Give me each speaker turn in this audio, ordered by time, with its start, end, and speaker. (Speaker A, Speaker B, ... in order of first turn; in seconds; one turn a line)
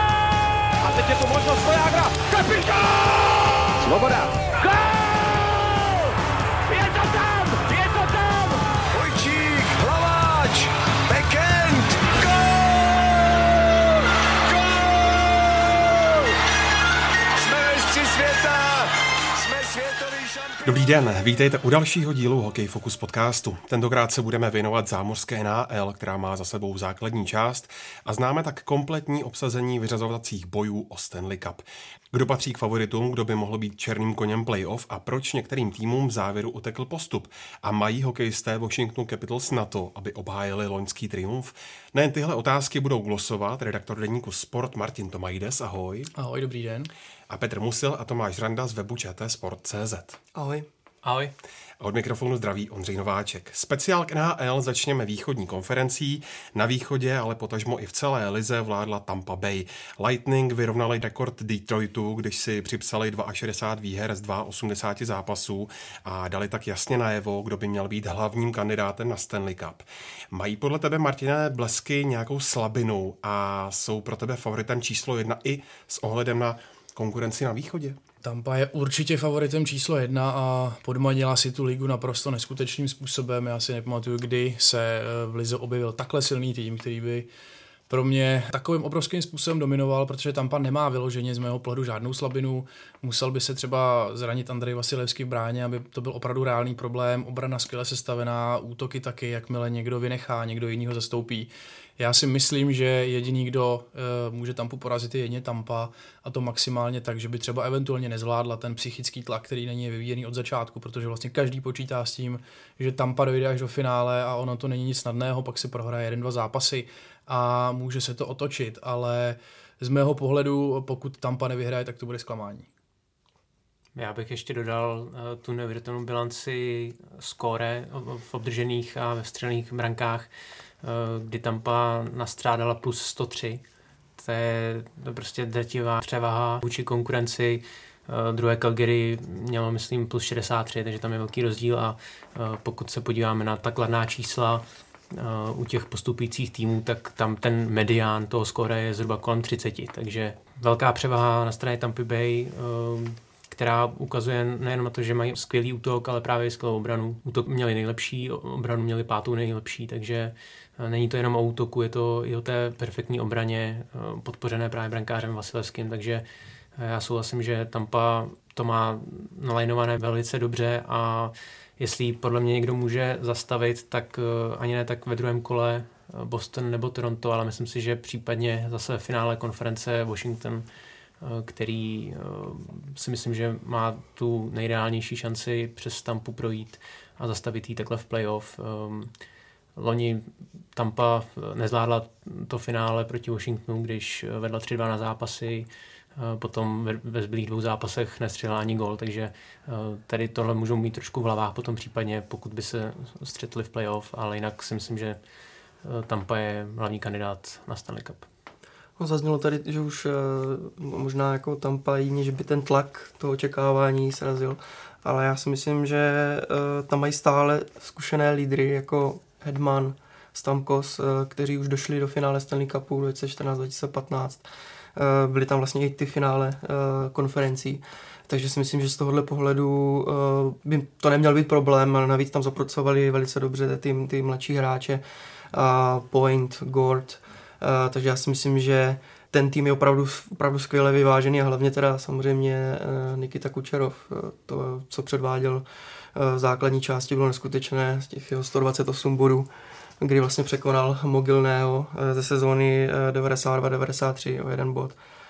Speaker A: 0.8-3.0
Speaker B: 3.8-4.3
Speaker A: 4.6-4.9
Speaker A: 6.7-8.7
Speaker B: 8.9-12.3
Speaker B: 14.5-15.1
Speaker B: 15.8-16.3
Speaker B: 17.4-20.9
Speaker C: 20.6-46.1
Speaker D: 46.1-46.9
Speaker C: 47.3-50.2
Speaker E: 50.4-50.7
Speaker F: 51.0-51.3
Speaker C: 51.8-78.0
Speaker D: 78.2-87.3
Speaker D: 87.9-122.7
Speaker F: 124.0-130.3
Speaker F: 130.8-133.6
Speaker F: 134.2-166.2
Speaker F: 166.8-180.7
Speaker F: 181.2-189.1
Speaker F: 189.8-205.2
Speaker F: 205.8-208.3
Speaker E: 209.0-224.4
Speaker E: 225.0-235.0
Speaker E: 235.5-245.6
Speaker E: 246.2-249.5
Speaker E: 250.0-255.0